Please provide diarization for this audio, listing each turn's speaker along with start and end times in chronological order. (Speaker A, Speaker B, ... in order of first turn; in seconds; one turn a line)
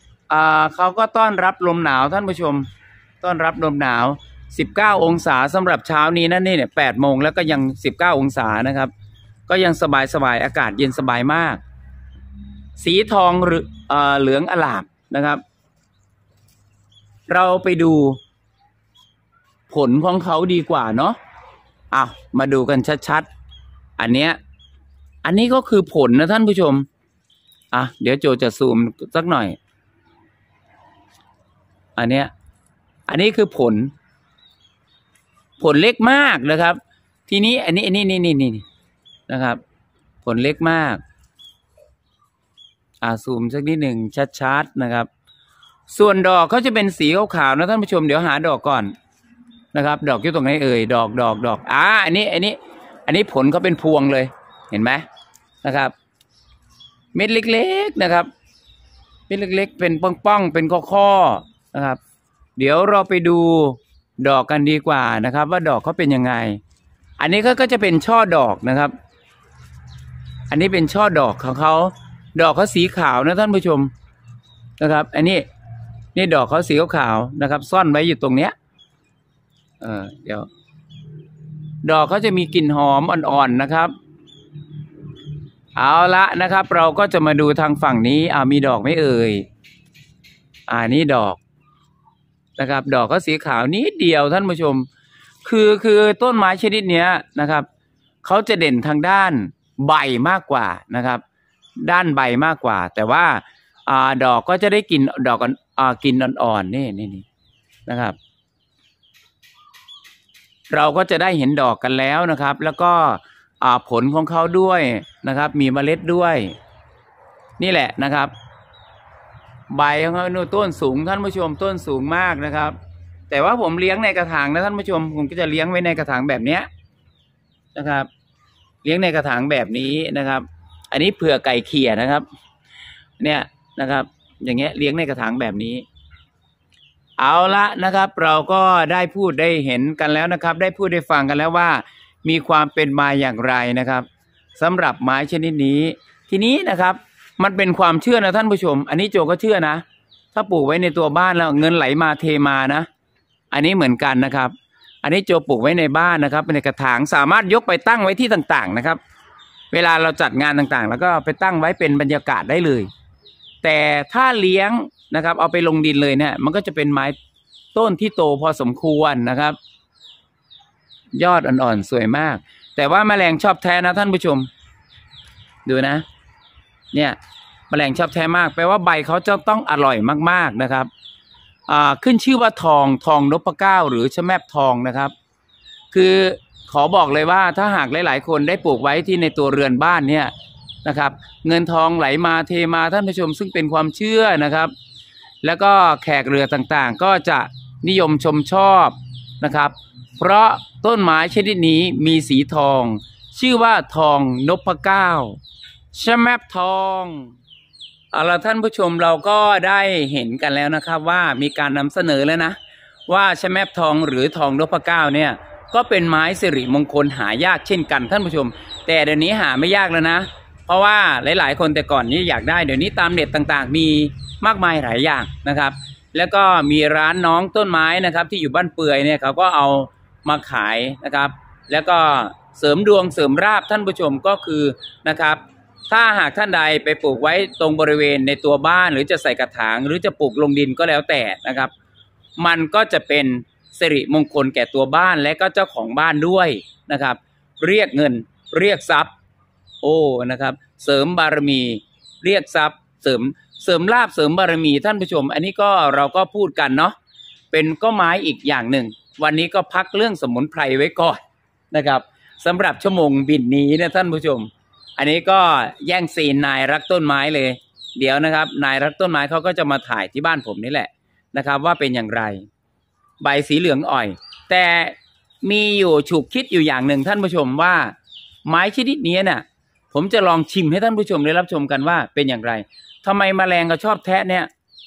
Speaker A: 0.3-2.7
Speaker A: 3.2-8.9
Speaker A: 9.5-11.6
Speaker A: 12.8-15.4
Speaker A: 17.3-18.2
Speaker A: 19.7-21.2
Speaker A: 21.9-23.3
Speaker A: 24.0-24.4
Speaker A: 25.2-26.9
Speaker A: 27.7-29.6
Speaker A: 32.0-32.3
Speaker A: 33.1-33.9
Speaker A: 35.6-38.6
Speaker A: 39.3-39.6
Speaker A: 40.2-41.0
Speaker A: 43.0-45.1
Speaker A: 45.9-48.9
Speaker A: 49.7-55.0
Speaker A: 55.6-55.9
Speaker A: 57.1-58.3
Speaker A: 59.3-62.0
Speaker A: 62.6-66.6
Speaker A: 67.2-69.0
Speaker A: 70.5-73.9
Speaker A: 74.8-75.5
Speaker A: 76.2-78.5
Speaker A: 79.8-80.5
Speaker A: 81.8-83.9
Speaker A: 85.8-89.5
Speaker A: 90.7-91.4
Speaker A: 92.6-94.9
Speaker A: 95.5-97.7
Speaker A: 98.2-101.2
Speaker A: 101.8-107.3
Speaker A: 107.9-108.2
Speaker A: 110.7-116.6
Speaker A: 117.6-118.3
Speaker A: 119.7-122.8
Speaker A: 123.3-126.7
Speaker A: 127.8-128.1
Speaker A: 128.8-132.2
Speaker A: 133.2-135.8
Speaker A: 137.2-152.9
Speaker A: 153.5-159.0
Speaker A: 159.7-162.9
Speaker A: 163.6-167.2
Speaker A: 167.7-169.6
Speaker A: 171.1-174.5
Speaker A: 175.7-176.1
Speaker A: 177.7-180.9
Speaker A: 181.7-185.1
Speaker A: 185.9-190.3
Speaker A: 190.8-194.7
Speaker A: 195.4-205.4
Speaker A: 205.9-207.3
Speaker A: 208.1-241.7
Speaker A: 242.4-249.1
Speaker A: 249.8-257.0
Speaker A: 257.5-272.5
Speaker A: 273.2-277.9
Speaker A: 278.4-284.5